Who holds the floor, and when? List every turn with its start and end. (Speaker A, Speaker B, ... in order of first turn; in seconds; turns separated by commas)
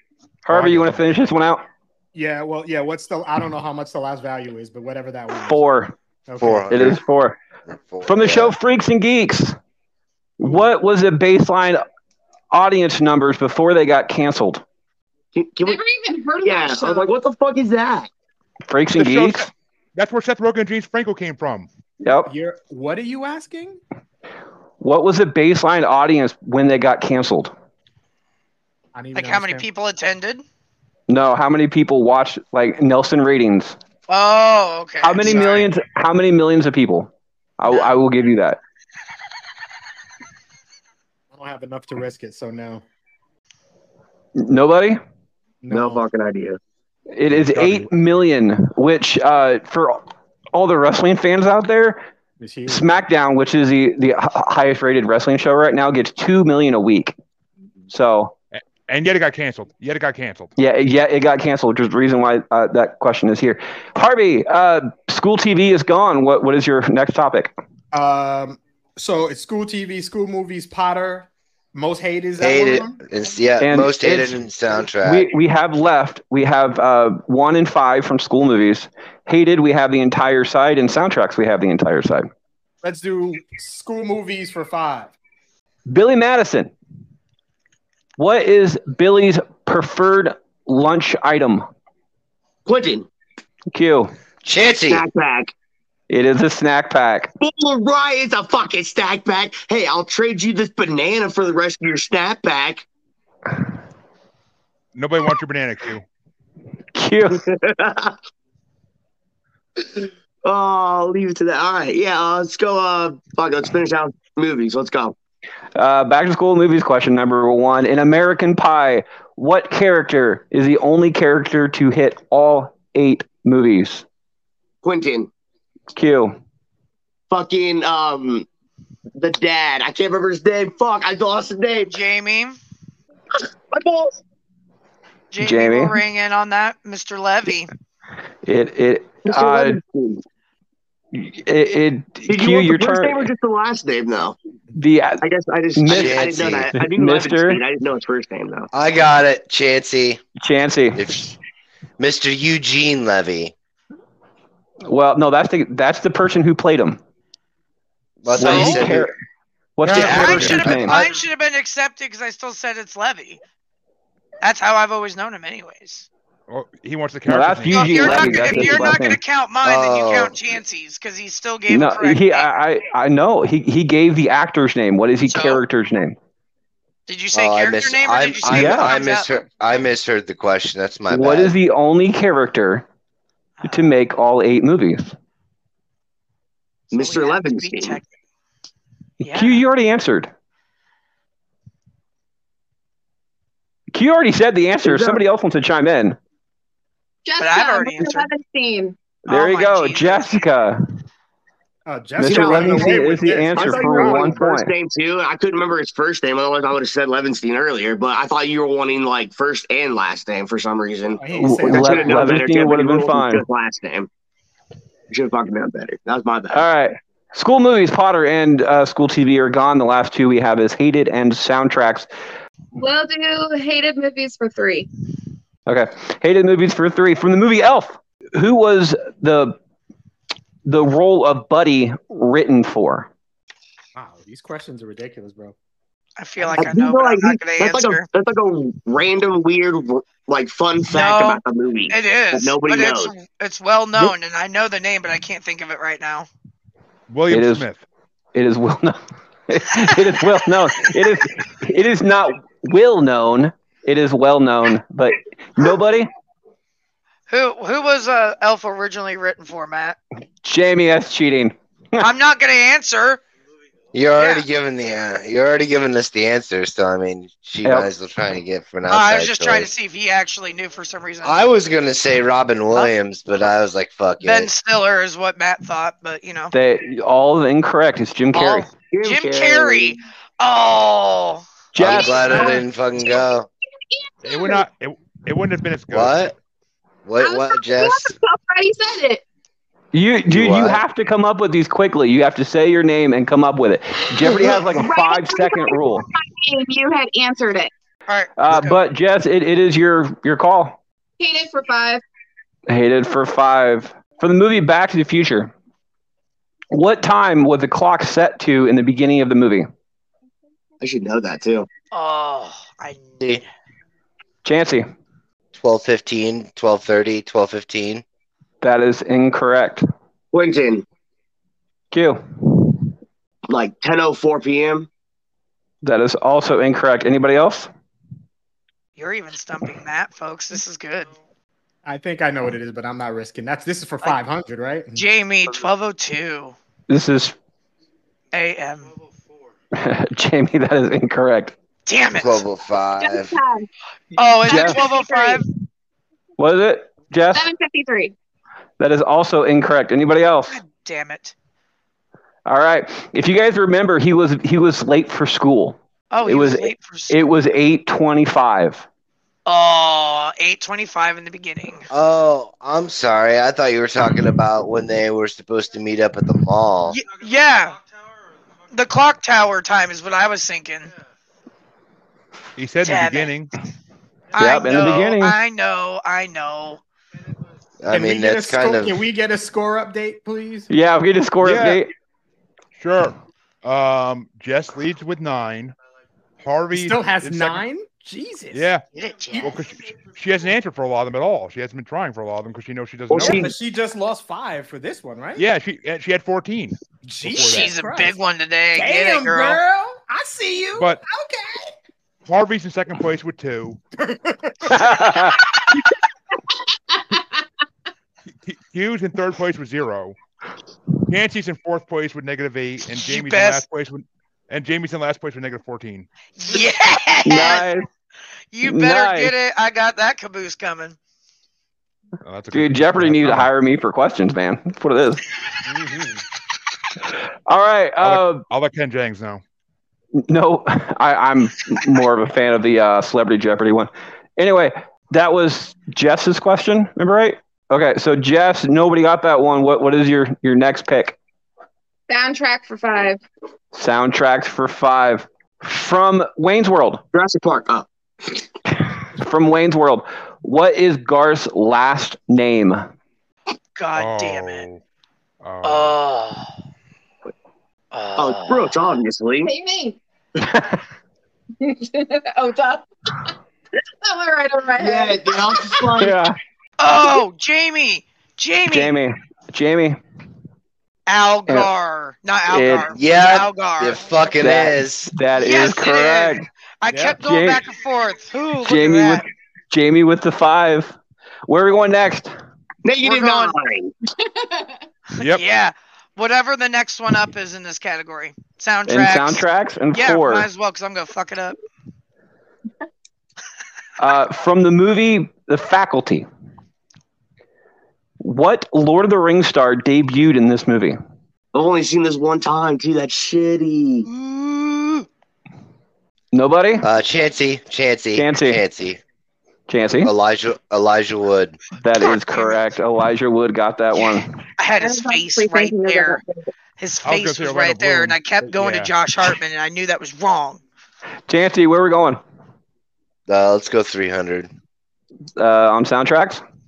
Speaker A: 0.4-1.6, Speaker B: 0.5-1.0, Speaker C: 2.1-5.6, Speaker A: 5.3-5.9, Speaker C: 6.3-6.9, Speaker D: 6.4-7.0, Speaker A: 6.7-7.4, Speaker D: 7.7-8.5, Speaker A: 8.0-9.6, Speaker A: 10.4-11.8, Speaker A: 12.5-14.6, Speaker E: 15.3-15.8, Speaker F: 15.6-17.1, Speaker E: 16.4-18.1, Speaker A: 18.7-19.5, Speaker B: 18.9-21.7, Speaker A: 22.0-22.3, Speaker C: 22.2-23.8, Speaker A: 24.8-27.5, Speaker C: 28.9-29.6, Speaker G: 29.1-30.4, Speaker A: 31.1-33.8, Speaker G: 34.1-35.7, Speaker A: 35.0-38.6, Speaker C: 35.2-35.6, Speaker G: 37.7-37.9, Speaker C: 41.3-42.8, Speaker A: 44.4-45.0, Speaker C: 45.6-46.0, Speaker E: 45.7-46.6, Speaker A: 47.1-50.0, Speaker B: 47.3-47.9, Speaker A: 50.5-52.0, Speaker C: 52.4-52.9, Speaker A: 52.7-57.1, Speaker A: 57.9-58.3, Speaker B: 58.5-60.5, Speaker A: 60.6-67.5, Speaker C: 67.9-73.0, Speaker D: 72.4-75.3, Speaker A: 73.6-74.4, Speaker A: 75.0-82.3, Speaker C: 82.8-85.1, Speaker A: 85.9-86.7, Speaker A: 88.2-91.7, Speaker E: 92.7-93.1, Speaker A: 93.7-94.1, Speaker D: 94.4-95.0, Speaker E: 94.8-95.5, Speaker A: 96.1-97.3, Speaker E: 97.4-102.8, Speaker B: 104.9-106.0, Speaker A: 106.9-107.4, Speaker E: 107.3-108.2, Speaker E: 109.8-115.1, Speaker A: 115.8-124.0, Speaker E: 124.8-125.3, Speaker A: 125.9-126.4, Speaker E: 127.3-128.5, Speaker E: 129.2-131.9, Speaker G: 131.9-132.6, Speaker E: 133.7-134.2, Speaker G: 135.3-137.7, Speaker A: 135.4-136.0, Speaker A: 138.4-139.8, Speaker E: 139.2-140.2, Speaker A: 141.1-143.3, Speaker E: 142.3-144.3, Speaker A: 144.7-145.2, Speaker E: 145.2-148.7, Speaker A: 145.7-147.6, Speaker D: 145.9-146.7, Speaker D: 148.7-150.2, Speaker A: 150.4-151.1, Speaker D: 150.9-151.3, Speaker D: 152.0-153.5, Speaker A: 154.9-157.0, Speaker D: 158.2-159.1, Speaker A: 158.3-159.1, Speaker G: 158.4-158.9, Speaker A: 159.8-161.0, Speaker D: 159.8-161.1, Speaker G: 159.9-163.4, Speaker B: 160.2-160.7, Speaker G: 164.4-166.1, Speaker B: 166.5-168.7, Speaker A: 167.3-169.2, Speaker G: 167.7-172.5, Speaker D: 169.6-170.3, Speaker A: 171.7-176.2, Speaker G: 175.2-175.6, Speaker G: 177.1-179.3, Speaker D: 177.3-181.5, Speaker A: 178.4-179.0, Speaker A: 181.1-182.8, Speaker G: 183.6-183.9, Speaker A: 183.6-185.1, Speaker E: 186.9-188.0, Speaker G: 186.9-188.1, Speaker G: 189.2-189.6, Speaker A: 189.2-190.3, Speaker A: 193.9-196.2, Speaker E: 194.8-195.2, Speaker F: 197.2-199.0, Speaker G: 197.4-198.3, Speaker A: 199.3-200.8, Speaker G: 199.3-200.3, Speaker C: 201.8-204.4, Speaker A: 202.2-204.7, Speaker E: 202.2-214.1, Speaker C: 211.2-212.5, Speaker A: 211.4-213.4, Speaker E: 215.1-216.6, Speaker A: 216.5-222.1, Speaker F: 222.7-224.9, Speaker A: 225.7-229.6, Speaker A: 230.6-233.1, Speaker C: 233.9-235.5, Speaker G: 236.2-238.0, Speaker E: 236.5-243.1, Speaker G: 240.9-246.3, Speaker B: 247.1-247.8, Speaker A: 247.3-247.7, Speaker A: 248.3-256.1, Speaker G: 257.3-260.0, Speaker A: 260.4-262.1, Speaker G: 262.0-263.2, Speaker D: 263.9-269.7, Speaker G: 264.2-264.4, Speaker A: 267.6-267.9, Speaker G: 268.9-271.4, Speaker D: 271.2-274.5, Speaker G: 274.2-276.5, Speaker A: 276.5-278.7, Speaker G: 278.4-281.4, Speaker E: 278.8-280.0, Speaker A: 281.7-282.3, Speaker D: 281.8-283.5, Speaker F: 281.8-283.2, Speaker G: 282.0-282.6, Speaker F: 283.9-284.6, Speaker B: 284.2-286.3, Speaker D: 285.9-286.3, Speaker D: 287.1-288.1, Speaker F: 287.2-289.2, Speaker A: 289.9-296.1, Speaker D: 290.3-290.8, Speaker F: 294.2-297.7, Speaker G: 298.1-298.8, Speaker A: 298.4-300.8, Speaker F: 301.2-302.0, Speaker A: 302.7-305.5, Speaker A: 306.7-309.7, Speaker E: 310.8-311.7, Speaker G: 311.9-313.4, Speaker A: 314.4-314.9, Speaker D: 315.5-318.0, Speaker A: 318.6-319.8, Speaker E: 320.3-320.8, Speaker A: 321.9-322.4, Speaker E: 323.5-324.9, Speaker A: 325.8-327.7, Speaker G: 329.0-331.1, Speaker C: 331.8-335.0, Speaker G: 334.9-336.6, Speaker A: 336.9-337.4, Speaker G: 338.3-338.9, Speaker A: 339.7-341.5, Speaker G: 341.9-342.4, Speaker D: 342.1-343.3, Speaker F: 343.0-343.7, Speaker G: 344.1-345.4, Speaker F: 344.4-345.4, Speaker A: 344.5-344.8, Speaker A: 346.4-347.5, Speaker F: 347.3-348.1, Speaker A: 348.8-350.6, Speaker G: 350.5-351.3, Speaker A: 352.4-358.9, Speaker G: 356.1-357.2, Speaker G: 359.4-361.9, Speaker D: 361.9-367.0, Speaker G: 366.9-367.8, Speaker G: 368.7-370.9, Speaker B: 372.6-373.5, Speaker G: 372.8-373.3, Speaker G: 374.3-376.8, Speaker A: 374.4-375.4, Speaker D: 377.8-379.0, Speaker C: 377.9-380.7, Speaker A: 380.7-381.9, Speaker B: 381.4-381.8, Speaker B: 382.7-385.8, Speaker B: 386.4-387.6, Speaker C: 386.7-388.7, Speaker B: 388.5-388.8, Speaker G: 388.9-389.6, Speaker B: 389.4-393.5, Speaker E: 393.1-393.6, Speaker C: 393.2-395.5, Speaker B: 395.4-397.7, Speaker C: 397.0-398.2, Speaker G: 397.4-399.6, Speaker C: 398.7-401.7, Speaker B: 400.8-401.0, Speaker B: 402.2-403.8, Speaker C: 404.0-405.1, Speaker A: 404.7-405.4, Speaker B: 408.4-410.1, Speaker B: 411.1-416.1, Speaker G: 412.9-413.6, Speaker G: 416.4-417.7, Speaker A: 417.2-417.9, Speaker G: 418.5-421.0, Speaker A: 418.6-419.3, Speaker B: 422.2-423.5, Speaker A: 422.5-425.2, Speaker C: 425.6-426.2, Speaker A: 427.5-428.4, Speaker B: 428.0-429.4, Speaker A: 430.1-441.2, Speaker F: 442.1-443.2, Speaker A: 443.7-447.0, Speaker E: 447.1-447.9, Speaker A: 449.2-452.9, Speaker G: 453.8-454.7, Speaker B: 453.9-454.8, Speaker B: 455.4-456.0, Speaker G: 455.6-456.5, Speaker G: 457.9-458.8, Speaker E: 458.2-459.5, Speaker F: 459.4-460.0, Speaker A: 460.4-460.8, Speaker F: 461.6-463.3, Speaker F: 464.0-466.0, Speaker E: 464.8-466.1, Speaker A: 466.0-466.4, Speaker G: 466.8-468.9, Speaker A: 468.7-470.0, Speaker G: 471.1-474.1, Speaker A: 472.5-472.9, Speaker D: 472.9-475.1, Speaker A: 474.4-476.4, Speaker G: 475.4-479.2, Speaker A: 477.0-477.6, Speaker A: 478.6-480.9, Speaker A: 481.5-482.3, Speaker E: 482.8-483.9, Speaker G: 483.0-483.6, Speaker G: 485.2-491.6, Speaker B: 485.2-485.5, Speaker A: 488.9-490.5, Speaker A: 494.0-496.3, Speaker A: 498.2-501.0, Speaker E: 501.5-504.1, Speaker G: 504.1-505.1, Speaker A: 506.3-506.9, Speaker D: 506.8-509.0, Speaker A: 508.1-508.6, Speaker A: 509.7-510.1, Speaker D: 510.0-511.6, Speaker A: 511.8-514.3, Speaker G: 512.3-512.6, Speaker G: 514.6-516.2, Speaker F: 514.8-516.2, Speaker G: 516.8-520.6, Speaker B: 517.0-518.9, Speaker A: 521.3-522.2, Speaker D: 523.3-524.5, Speaker A: 525.4-526.4